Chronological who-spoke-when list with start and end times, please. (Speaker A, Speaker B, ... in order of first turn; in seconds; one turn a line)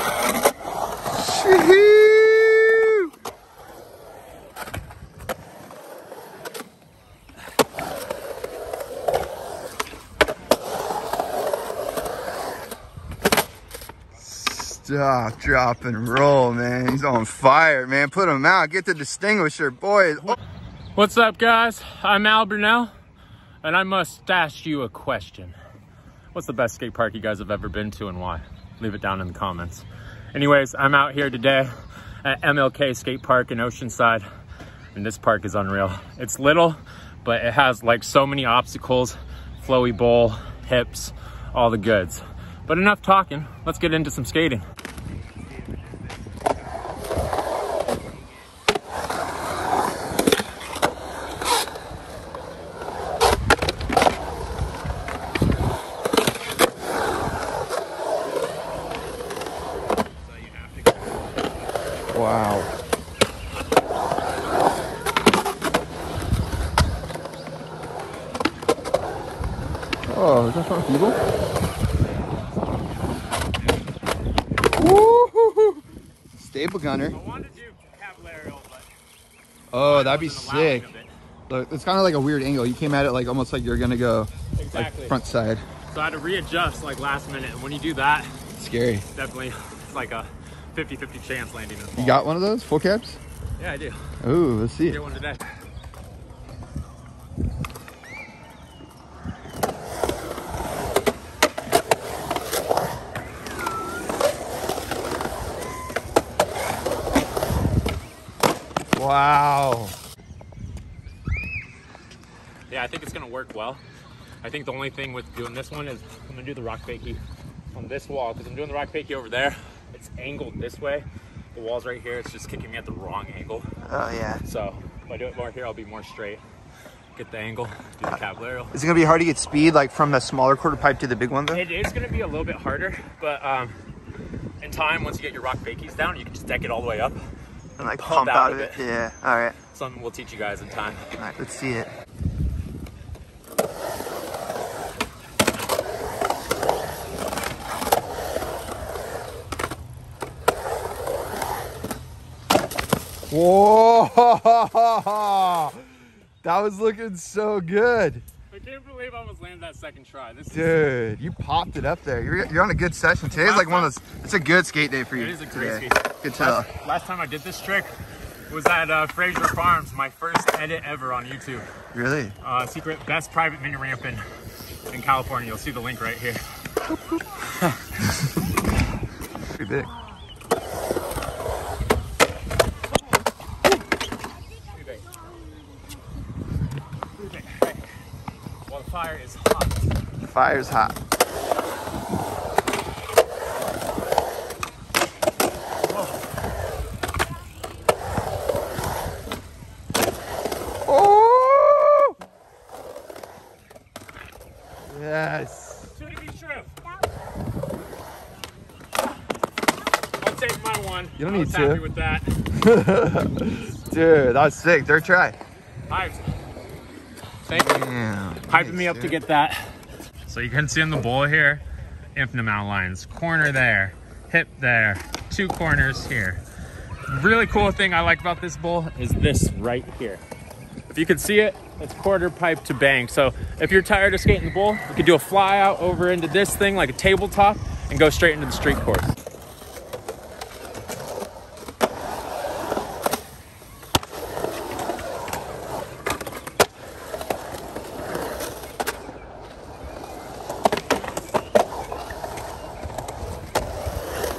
Speaker A: 1.2-3.1
Speaker A: 14.1-20.4
Speaker B: 20.9-22.9
Speaker B: 23.6-25.5
Speaker B: 26.3-31.7
Speaker B: 32.2-34.2
Speaker B: 34.9-44.6
Speaker B: 60.4-61.0
Speaker A: 62.1-62.7
Speaker A: 70.1-71.2
Speaker A: 74.7-75.8
Speaker A: 76.3-77.2
Speaker B: 77.1-78.9
Speaker A: 79.7-80.9
Speaker B: 79.8-81.1
Speaker A: 81.5-85.6
Speaker B: 84.6-85.2
Speaker B: 85.9-88.3
Speaker A: 88.6-89.0
Speaker B: 89.1-92.2
Speaker A: 92.0-93.2
Speaker B: 93.6-94.1
Speaker A: 94.2-95.0
Speaker B: 94.8-95.4
Speaker A: 108.9-110.0
Speaker B: 112.7-113.8
Speaker B: 114.4-117.2
Speaker B: 117.7-123.8
Speaker A: 123.8-124.4
Speaker B: 124.4-126.4
Speaker B: 127.1-128.7
Speaker A: 128.7-131.6
Speaker B: 131.5-133.8
Speaker B: 134.6-137.2
Speaker B: 137.8-138.8
Speaker A: 137.8-139.6
Speaker B: 139.7-141.1
Speaker A: 141.2-141.9
Speaker A: 153.3-155.9
Speaker A: 156.4-158.2
Speaker B: 158.5-160.8
Speaker A: 160.5-166.7
Speaker B: 163.3-163.9
Speaker B: 165.2-167.9
Speaker B: 168.5-171.7
Speaker A: 171.9-172.3
Speaker B: 172.4-174.2
Speaker B: 174.9-176.5
Speaker A: 179.5-179.9
Speaker B: 184.8-185.0
Speaker B: 187.2-187.8
Speaker B: 188.7-189.8
Speaker A: 190.2-191.0
Speaker A: 200.8-202.2
Speaker A: 204.8-205.8
Speaker B: 205.9-206.7
Speaker B: 210.2-212.4
Speaker A: 211.2-211.8
Speaker A: 212.5-215.4
Speaker B: 215.9-216.3
Speaker B: 217.4-217.9
Speaker A: 217.5-219.2
Speaker B: 218.4-221.6
Speaker B: 222.1-226.4
Speaker B: 227.1-230.2
Speaker B: 230.9-239.1